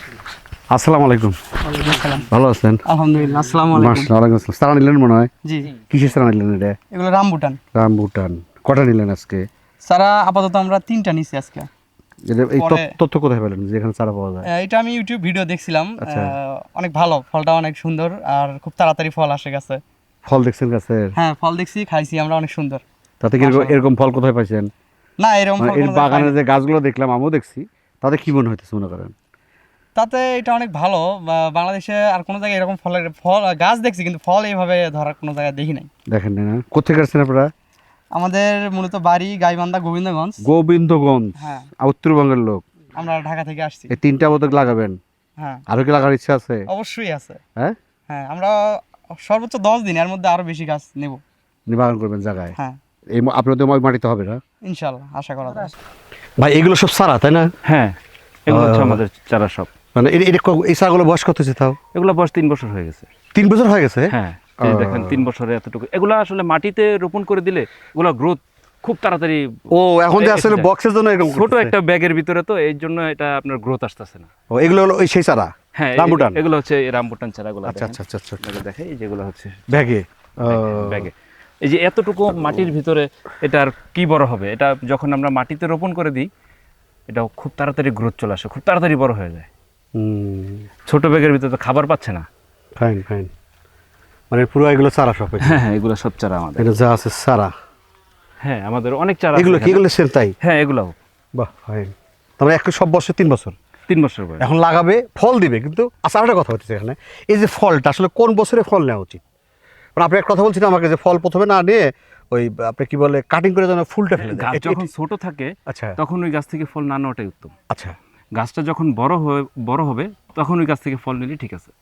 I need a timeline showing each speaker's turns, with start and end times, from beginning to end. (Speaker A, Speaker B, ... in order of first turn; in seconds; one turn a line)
Speaker A: 0.7-1.4
Speaker B: 1.6-2.3
Speaker A: 2.3-2.8
Speaker B: 2.9-4.1
Speaker A: 3.7-6.8
Speaker B: 5.4-5.7
Speaker B: 6.9-7.6
Speaker A: 7.7-9.4
Speaker B: 9.8-11.7
Speaker A: 12.3-14.5
Speaker B: 12.6-12.9
Speaker B: 14.4-19.8
Speaker A: 16.0-16.3
Speaker A: 20.2-21.1
Speaker B: 21.1-22.8
Speaker A: 23.2-24.7
Speaker B: 23.4-23.8
Speaker B: 25.2-26.3
Speaker A: 25.6-29.1
Speaker B: 29.9-35.9
Speaker A: 36.1-37.5
Speaker B: 38.1-40.4
Speaker A: 40.4-42.6
Speaker B: 41.4-41.6
Speaker B: 43.0-43.9
Speaker A: 43.9-45.0
Speaker A: 45.7-46.6
Speaker B: 46.7-47.4
Speaker B: 48.1-51.2
Speaker A: 51.7-52.5
Speaker A: 53.1-54.4
Speaker B: 54.6-55.7
Speaker A: 56.4-57.5
Speaker C: 57.6-58.0
Speaker C: 58.5-59.7
Speaker A: 58.5-59.0
Speaker A: 59.9-61.8
Speaker C: 61.9-63.1
Speaker A: 63.3-65.2
Speaker C: 64.1-69.5
Speaker A: 69.7-71.7
Speaker C: 70.2-70.7
Speaker C: 71.2-74.3
Speaker A: 74.5-76.4
Speaker C: 75.8-79.6
Speaker A: 77.7-78.4
Speaker A: 79.7-81.1
Speaker C: 80.4-81.1
Speaker C: 81.6-86.3
Speaker C: 87.1-89.5
Speaker A: 90.0-90.7
Speaker C: 90.9-92.3
Speaker A: 92.8-93.3
Speaker A: 94.3-95.6
Speaker C: 95.4-96.6
Speaker A: 96.6-97.5
Speaker C: 98.4-99.8
Speaker A: 99.3-100.3
Speaker C: 100.4-101.0
Speaker A: 101.3-103.5
Speaker C: 103.9-104.4
Speaker A: 104.4-109.2
Speaker A: 110.0-114.9
Speaker C: 114.2-117.5
Speaker A: 115.7-116.0
Speaker C: 118.3-121.7